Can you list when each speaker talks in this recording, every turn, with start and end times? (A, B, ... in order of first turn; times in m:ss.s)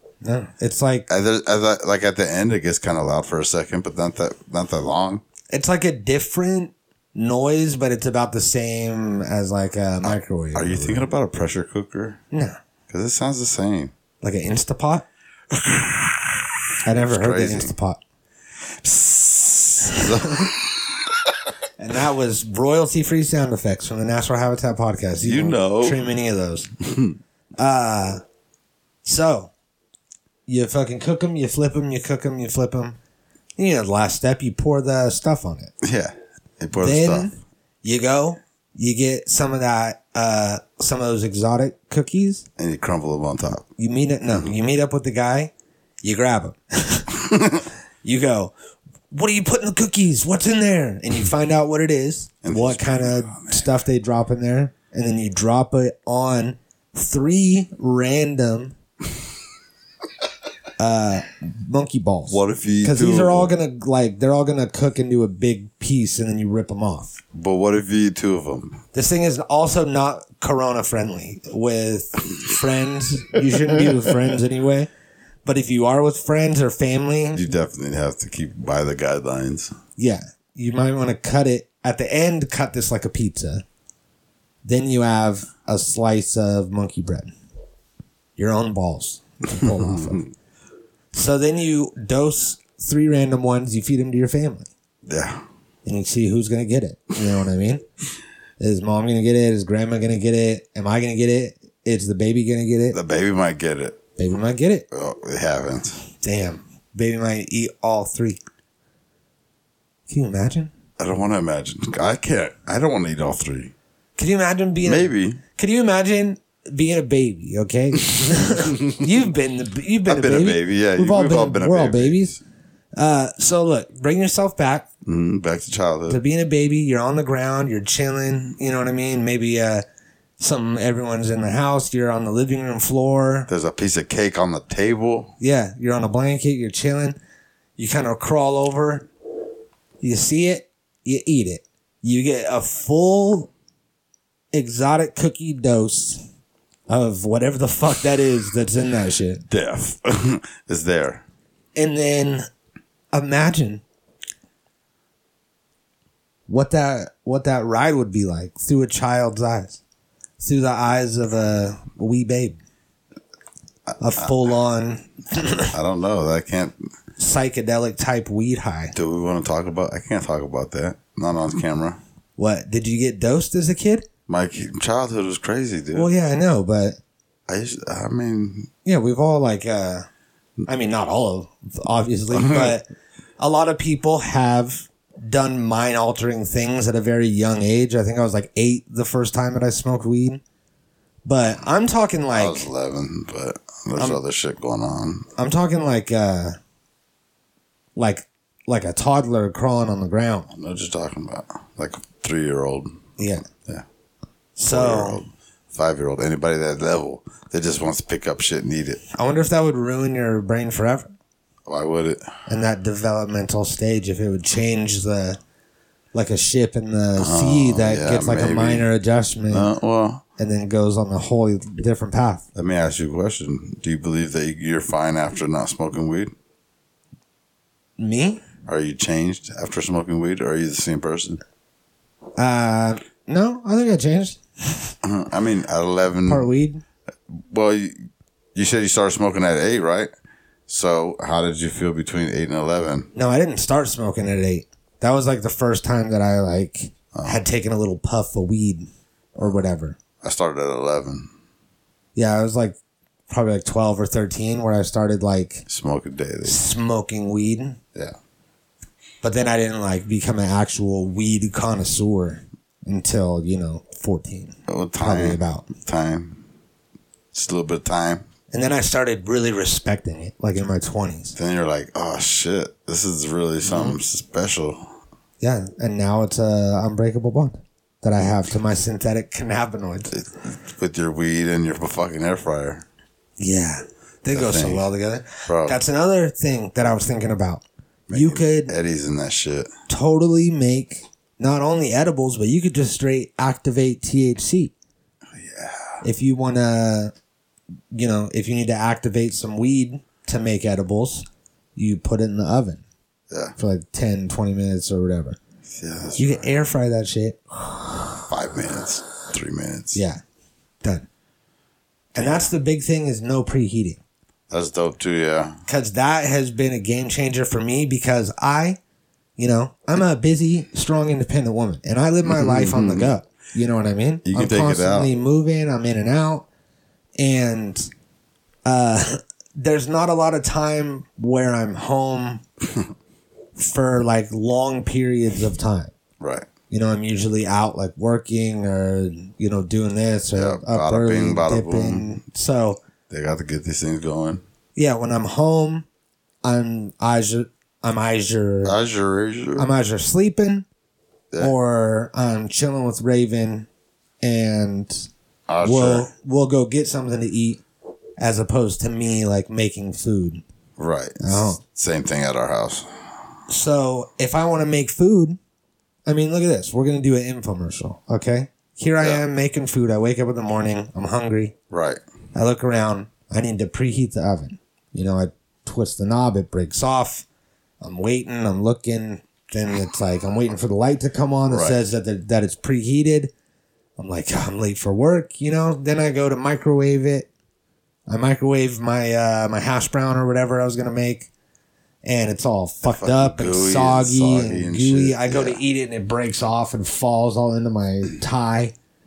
0:00.2-0:01.1 A
0:01.1-0:05.2 B
0:05.5-0:11.1 A
0:10.0-0:12.2 B
0:12.3-0:12.6 A
0:12.9-0:13.9 B
0:14.2-0:15.0 A
0:15.5-0:17.7 B
0:16.8-0:18.0 A
0:18.8-0:21.2 B
0:19.9-0:20.5 A
0:21.8-0:26.7 A
0:25.2-0:26.0 B
0:26.8-0:27.1 B
0:27.6-0:28.2 A
0:29.0-0:29.5 A
0:30.5-0:33.0 A
0:33.6-0:35.7 A
0:35.8-0:37.3 B
0:36.8-0:42.4 A
0:42.6-0:43.6 B
0:43.8-0:45.5 A
0:46.0-0:47.1 A
0:47.3-0:47.6 B
0:48.0-0:48.5 A
0:49.1-0:58.8 A
0:52.4-0:53.7 B
1:00.8-1:07.2 A
1:02.3-1:03.6 B
1:07.3-1:08.8 B
1:08.9-1:14.9 A
1:13.6-1:14.0 B
1:15.4-1:17.4 A
1:17.3-1:19.7 B
1:20.0-1:23.6 A
1:24.6-1:27.3 A
1:28.4-1:30.2 A
1:29.6-1:30.2 B
1:31.1-1:34.7 A
1:35.0-1:35.4 B
1:35.8-1:37.8 A
1:38.6-1:43.0 A
1:42.9-1:44.0 B
1:44.2-1:44.8 A
1:44.9-1:46.0 B
1:46.2-1:48.4 A
1:50.1-1:50.7 A
1:51.0-1:53.7 B
1:54.2-2:02.4 A
1:54.8-1:55.4 B
1:58.4-1:59.0 B
2:00.0-2:02.4 B
2:03.0-2:04.9 A
2:05.0-2:06.2 B
2:06.1-2:09.8 A
2:10.4-2:13.5 A
2:13.5-2:15.3 B
2:15.4-2:17.2 A
2:17.8-2:19.1 A
2:20.0-2:23.5 A
2:24.5-2:26.2 A
2:26.9-2:29.4 A
2:29.5-2:31.2 B
2:31.8-2:32.5 A
2:33.1-2:33.8 A
2:36.5-2:39.8 A
2:40.4-2:42.6 A
2:44.0-2:45.7 A
2:44.2-2:44.4 B
2:45.6-2:46.8 B
2:47.2-2:48.9 A
2:48.9-2:52.0 B
2:52.4-2:54.0 A
2:54.3-2:56.1 B
2:55.9-2:57.0 A
2:57.5-2:58.7 B
2:58.8-3:00.0 A
3:00.7-3:02.9 A
3:02.3-3:02.7 B
3:03.4-3:10.4 A
3:11.2-3:12.7 A
3:12.3-3:15.3 B
3:15.4-3:16.6 A
3:18.0-3:20.5 A
3:20.5-3:23.8 B
3:23.2-3:23.4 A
3:24.6-3:25.2 A
3:24.7-3:29.0 B
3:29.1-3:31.1 A
3:31.6-3:32.4 B
3:32.5-3:35.4 A
3:36.1-3:39.7 A
3:37.2-3:38.9 B
3:39.5-3:40.2 B
3:40.4-3:42.4 A
3:42.5-3:46.3 B
3:48.0-3:48.4 A
3:48.6-3:51.4 B
3:52.4-3:54.9 A
3:55.0-3:56.5 B
3:56.2-3:56.8 A
3:57.3-3:58.0 B
3:58.5-4:00.1 B
4:00.7-4:03.1 B
4:03.1-4:10.0 A
4:07.1-4:07.4 B
4:10.2-4:11.3 B
4:12.2-4:12.8 A
4:13.3-4:15.6 A
4:15.7-4:16.6 B
4:16.4-4:17.8 A
4:19.2-4:25.7 A
4:24.7-4:26.4 B
4:27.3-4:28.2 B
4:28.5-4:31.4 A
4:31.4-4:34.9 B
4:33.6-4:34.0 A
4:35.4-4:40.1 A
4:40.1-4:42.8 B
4:43.4-4:48.7 A
4:44.3-4:44.9 B
4:45.4-4:45.8 B
4:48.1-4:49.7 B
4:49.9-4:54.7 A
4:55.3-4:56.0 B
4:56.0-4:57.1 A
4:57.9-5:02.8 A
5:03.3-5:03.5 B
5:03.6-5:05.4 A
5:05.6-5:06.4 B
5:06.2-5:08.2 A
5:08.3-5:10.0 B
5:09.9-5:10.2 A
5:12.1-5:14.0 A
5:14.5-5:15.6 B
5:15.7-5:18.8 A
5:19.4-5:26.4 A
5:22.2-5:23.1 B
5:24.2-5:25.1 B
5:27.2-5:27.9 A
5:28.6-5:32.4 A
5:33.6-5:35.9 A
5:36.2-5:36.5 B
5:36.7-5:42.8 A
5:40.3-5:42.2 B
5:43.1-5:44.4 B
5:44.8-5:45.8 A
5:46.4-5:48.8 A
5:48.6-5:49.7 B
5:49.6-5:50.6 A
5:51.4-5:53.7 A
5:54.2-5:55.1 A
5:55.5-5:56.1 B
5:55.6-5:57.6 A
5:58.2-6:00.4 A
6:00.8-6:03.0 B
6:01.2-6:01.6 A
6:03.5-6:05.4 A
6:06.0-6:11.5 A
6:11.7-6:12.0 B
6:12.3-6:17.2 A
6:17.8-6:23.3 A
6:21.5-6:21.8 B
6:24.0-6:27.3 A
6:28.1-6:31.3 A
6:32.0-6:38.7 A
6:32.8-6:35.6 B